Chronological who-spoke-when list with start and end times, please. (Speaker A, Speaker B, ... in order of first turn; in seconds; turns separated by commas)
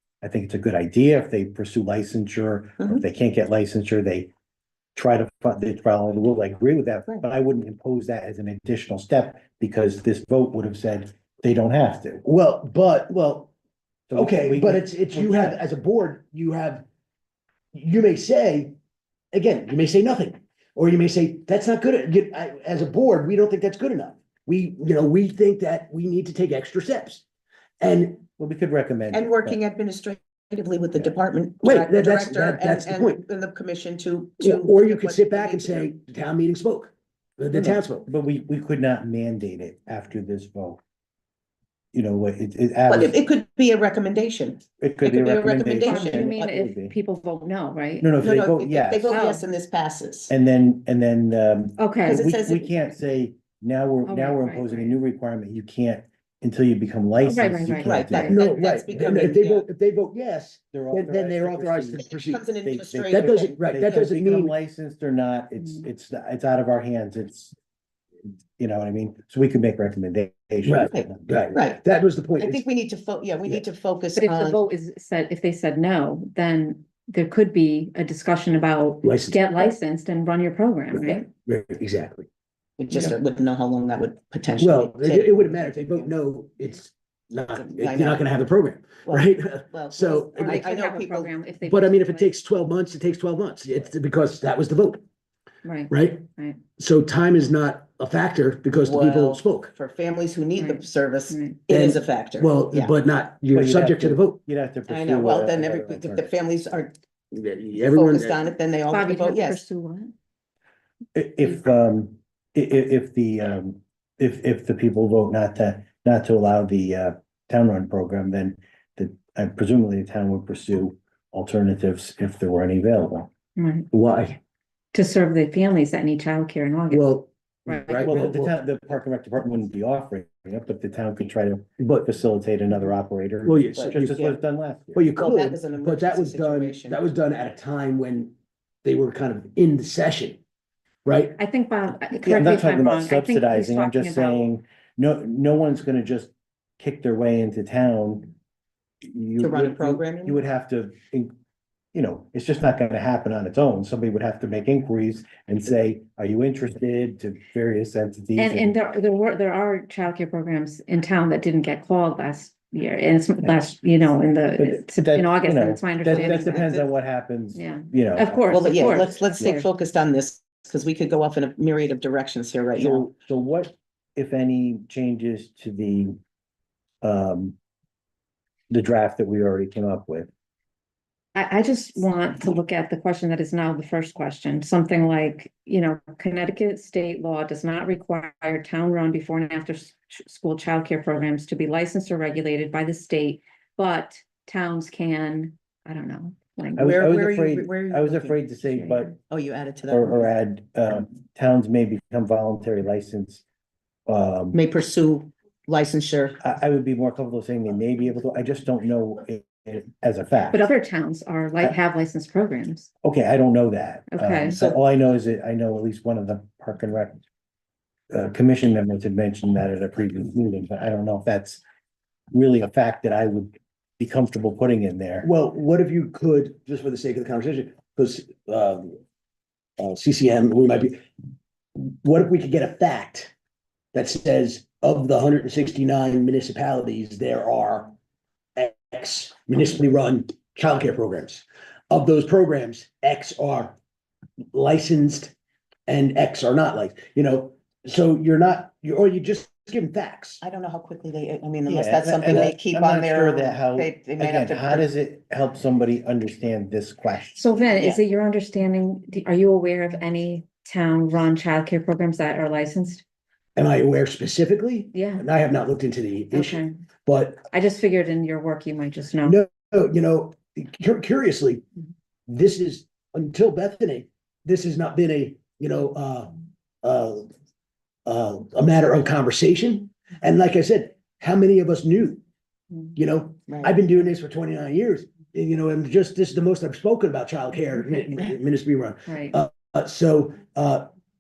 Speaker A: 0.2-4.3, Speaker A: 5.0-12.2, Speaker B: 12.2-13.5, Speaker A: 14.1-15.6, Speaker B: 14.2-16.8, Speaker B: 17.7-18.8, Speaker B: 19.3-27.2, Speaker B: 27.8-28.2, Speaker A: 28.4-29.6, Speaker C: 29.1-35.9, Speaker B: 31.6-33.2, Speaker B: 34.4-38.1, Speaker A: 37.5-40.8, Speaker A: 41.9-43.2, Speaker C: 42.9-46.4, Speaker A: 44.8-47.0, Speaker D: 45.8-48.1, Speaker A: 48.0-49.2, Speaker C: 48.2-50.3, Speaker D: 49.1-49.4, Speaker A: 50.3-58.4, Speaker D: 51.8-52.3, Speaker C: 52.1-52.7, Speaker D: 54.0-55.0, Speaker D: 57.2-58.4, Speaker C: 57.8-59.7, Speaker B: 58.1-62.4, Speaker A: 60.7-62.1, Speaker C: 62.0-64.1, Speaker A: 62.6-67.5, Speaker B: 63.1-64.5, Speaker A: 68.6-71.4, Speaker B: 70.7-72.6, Speaker C: 70.9-71.8, Speaker C: 72.4-74.6, Speaker D: 74.2-81.3, Speaker B: 79.0-79.7, Speaker B: 80.9-82.3, Speaker C: 82.8-85.5, Speaker B: 84.6-90.6, Speaker C: 87.5-88.2, Speaker C: 89.1-91.3, Speaker D: 90.3-92.3, Speaker B: 91.7-95.0, Speaker D: 95.6-96.6, Speaker B: 95.9-99.7, Speaker C: 98.8-103.0, Speaker D: 100.6-101.6, Speaker B: 101.7-104.4, Speaker A: 103.5-106.3, Speaker C: 104.9-106.9, Speaker B: 107.3-108.5, Speaker C: 107.8-109.6, Speaker D: 108.9-110.1, Speaker A: 111.2-123.3, Speaker D: 123.6-123.9, Speaker B: 123.9-124.4, Speaker D: 124.9-127.1, Speaker B: 126.9-128.6, Speaker D: 127.7-128.1, Speaker A: 128.0-135.0, Speaker B: 131.8-132.1, Speaker B: 133.4-134.2, Speaker C: 133.7-134.3, Speaker B: 134.9-138.3, Speaker C: 135.2-137.0, Speaker B: 138.8-140.4, Speaker B: 141.1-141.4, Speaker D: 141.4-144.5, Speaker A: 142.2-148.3, Speaker A: 149.1-151.3, Speaker C: 149.4-150.4, Speaker A: 151.9-158.8, Speaker D: 158.4-166.8, Speaker A: 164.6-169.6, Speaker C: 166.1-166.8, Speaker D: 167.6-169.7, Speaker C: 168.5-173.1, Speaker A: 172.8-176.2, Speaker A: 177.0-177.6, Speaker A: 178.7-180.3, Speaker D: 181.3-196.9, Speaker A: 196.8-199.2, Speaker C: 196.8-198.5, Speaker D: 198.7-199.1, Speaker C: 199.2-200.3, Speaker A: 199.9-203.4, Speaker A: 204.1-204.6, Speaker C: 204.5-206.4, Speaker A: 206.4-210.7, Speaker D: 210.5-212.9, Speaker A: 213.0-217.2, Speaker D: 214.1-214.6, Speaker A: 218.1-221.6, Speaker A: 222.3-225.3, Speaker B: 225.2-229.0, Speaker B: 229.8-231.1, Speaker B: 231.8-233.3, Speaker B: 233.9-237.9, Speaker B: 238.6-243.8, Speaker B: 244.5-245.3, Speaker B: 245.9-250.4, Speaker C: 250.4-254.9, Speaker A: 251.7-257.5, Speaker D: 257.4-263.0, Speaker C: 257.8-258.0, Speaker B: 263.6-267.5, Speaker D: 264.9-265.3, Speaker D: 266.3-266.8, Speaker D: 267.5-269.4, Speaker B: 269.2-271.6, Speaker B: 272.3-277.3, Speaker B: 278.1-282.2, Speaker B: 282.9-290.9, Speaker C: 283.5-283.8, Speaker D: 289.1-289.4